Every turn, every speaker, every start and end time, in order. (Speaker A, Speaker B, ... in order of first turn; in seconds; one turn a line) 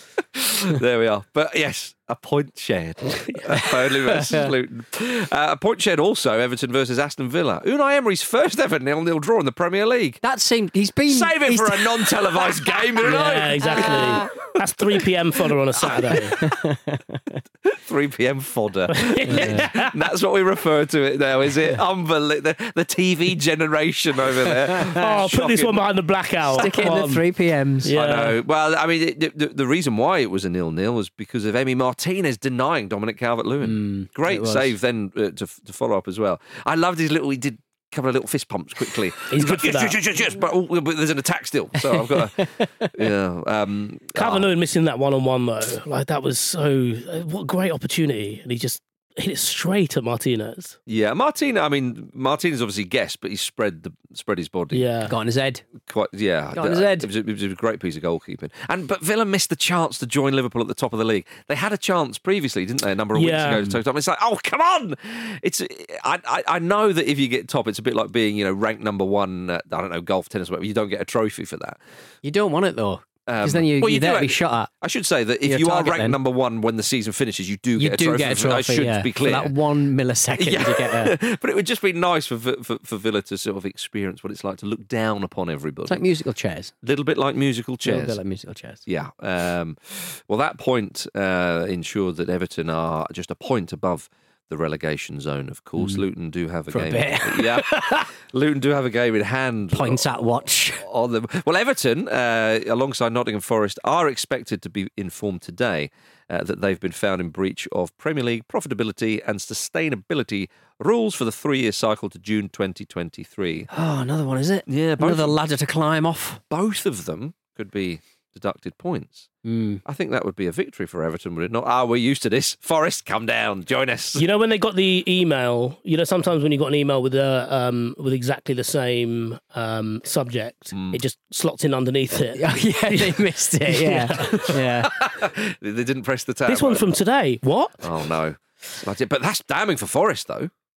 Speaker A: 0.3-10.2
Speaker B: 4.0-4.5
Speaker B: 10.2-14.2
Speaker A: 11.1-15.0
Speaker C: 13.1-16.4
Speaker A: 15.7-16.5
Speaker B: 16.4-17.4
Speaker A: 17.6-25.8
Speaker C: 18.9-19.9
Speaker B: 19.3-19.7
Speaker B: 24.7-25.2
Speaker C: 24.9-27.3
Speaker B: 26.4-27.9
Speaker C: 27.8-28.4
Speaker A: 27.9-44.5
Speaker B: 33.6-34.7
Speaker C: 39.3-40.0
Speaker B: 41.9-42.9
Speaker C: 44.1-50.8
Speaker A: 50.9-54.9
Speaker C: 54.7-55.1
Speaker B: 55.1-55.6
Speaker A: 55.8-71.8
Speaker B: 56.5-57.1
Speaker C: 63.1-63.7
Speaker B: 72.2-74.7
Speaker A: 73.3-79.6
Speaker B: 75.4-76.2
Speaker B: 77.8-81.1
Speaker A: 80.4-86.1
Speaker B: 85.9-86.7
Speaker A: 86.8-88.2
Speaker B: 87.8-88.8
Speaker A: 88.9-100.1
Speaker B: 95.8-96.0
Speaker B: 96.7-98.1
Speaker B: 99.7-100.8
Speaker A: 100.8-113.7
Speaker B: 113.7-116.4
Speaker A: 114.7-115.4
Speaker A: 116.5-119.3
Speaker B: 119.4-119.8
Speaker A: 119.8-124.2
Speaker C: 124.2-134.6
Speaker A: 130.7-131.0
Speaker B: 132.4-134.9
Speaker A: 134.9-136.9
Speaker C: 136.5-137.8
Speaker A: 137.8-140.5